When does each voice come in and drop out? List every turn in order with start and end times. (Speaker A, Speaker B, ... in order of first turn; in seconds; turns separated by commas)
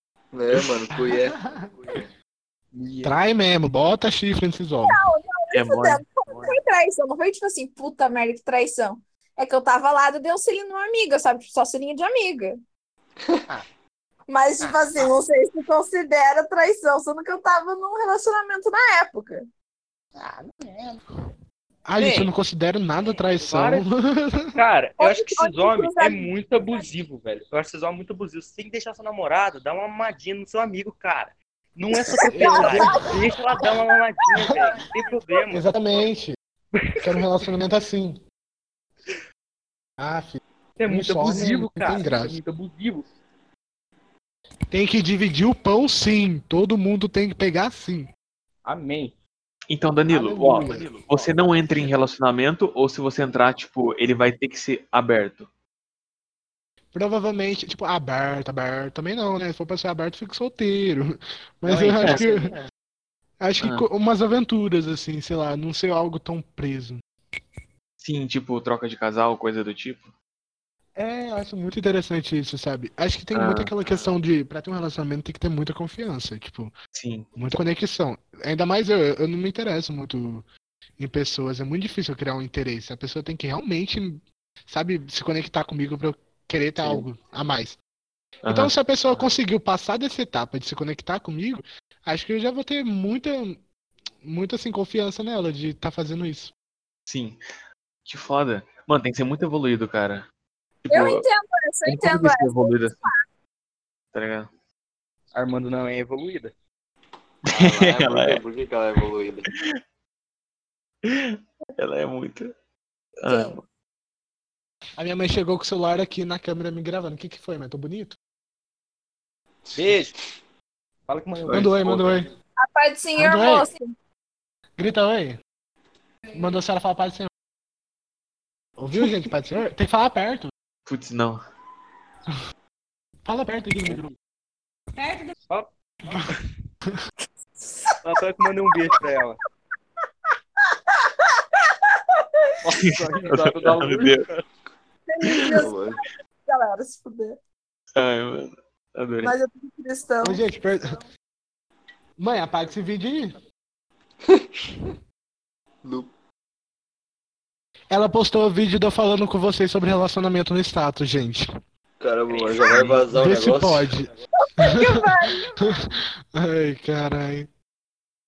Speaker A: 0.3-2.1, Speaker B: 0.9-1.6, Speaker C: 2.7-3.2, Speaker B: 3.0-5.0, Speaker D: 4.9-12.6, Speaker E: 5.5-6.5, Speaker D: 14.3-19.4, Speaker C: 20.2-21.0, Speaker B: 21.9-24.6, Speaker C: 22.0-22.3, Speaker C: 23.2-23.8, Speaker C: 24.5-35.7, Speaker D: 25.0-26.8, Speaker D: 32.1-33.1, Speaker B: 32.2-33.3, Speaker B: 34.5-34.7, Speaker B: 35.5-36.4, Speaker C: 36.8-37.5, Speaker B: 37.0-38.2, Speaker B: 40.0-42.4, Speaker C: 40.8-43.1, Speaker B: 44.7-48.1, Speaker C: 48.6-49.1, Speaker E: 49.7-55.5, Speaker B: 50.1-50.9, Speaker C: 50.6-51.4, Speaker B: 56.9-62.5, Speaker E: 61.7-62.5, Speaker B: 63.4-67.0, Speaker E: 68.0-70.1, Speaker B: 71.0-76.7, Speaker E: 73.3-74.2, Speaker E: 77.0-77.3, Speaker B: 77.4-80.5, Speaker B: 81.0-87.8, Speaker E: 86.8-87.1, Speaker E: 88.4-89.3, Speaker B: 88.5-93.6, Speaker B: 94.2-96.5, Speaker E: 97.1-97.4, Speaker E: 98.1-100.2, Speaker E: 100.8-101.2, Speaker D: 100.9-103.2, Speaker E: 101.8-103.1, Speaker E: 104.1-104.5, Speaker C: 105.3-106.5, Speaker E: 107.5-108.4, Speaker A: 107.5-109.5, Speaker E: 111.0-112.5, Speaker E: 113.2-113.6, Speaker D: 113.3-113.6, Speaker B: 115.0-118.2, Speaker C: 119.7-120.2, Speaker C: 121.1-122.3, Speaker B: 121.5-122.3, Speaker D: 122.6-123.9, Speaker B: 123.2-123.7, Speaker B: 124.8-125.4, Speaker B: 126.3-127.3, Speaker B: 128.8-130.5, Speaker E: 130.9-131.4, Speaker B: 133.2-134.1, Speaker C: 133.9-134.1, Speaker C: 138.0-139.4, Speaker C: 142.6-144.4, Speaker E: 142.9-144.3, Speaker D: 145.1-147.4, Speaker A: 145.5-146.0, Speaker E: 148.0-149.3, Speaker D: 149.2-150.4, Speaker B: 150.2-150.9, Speaker B: 152.2-153.4, Speaker A: 155.8-156.1, Speaker B: 157.9-161.5, Speaker A: 162.0-163.9, Speaker E: 162.3-163.0, Speaker B: 162.7-164.1, Speaker D: 164.5-165.8, Speaker B: 164.6-165.1, Speaker B: 165.7-167.5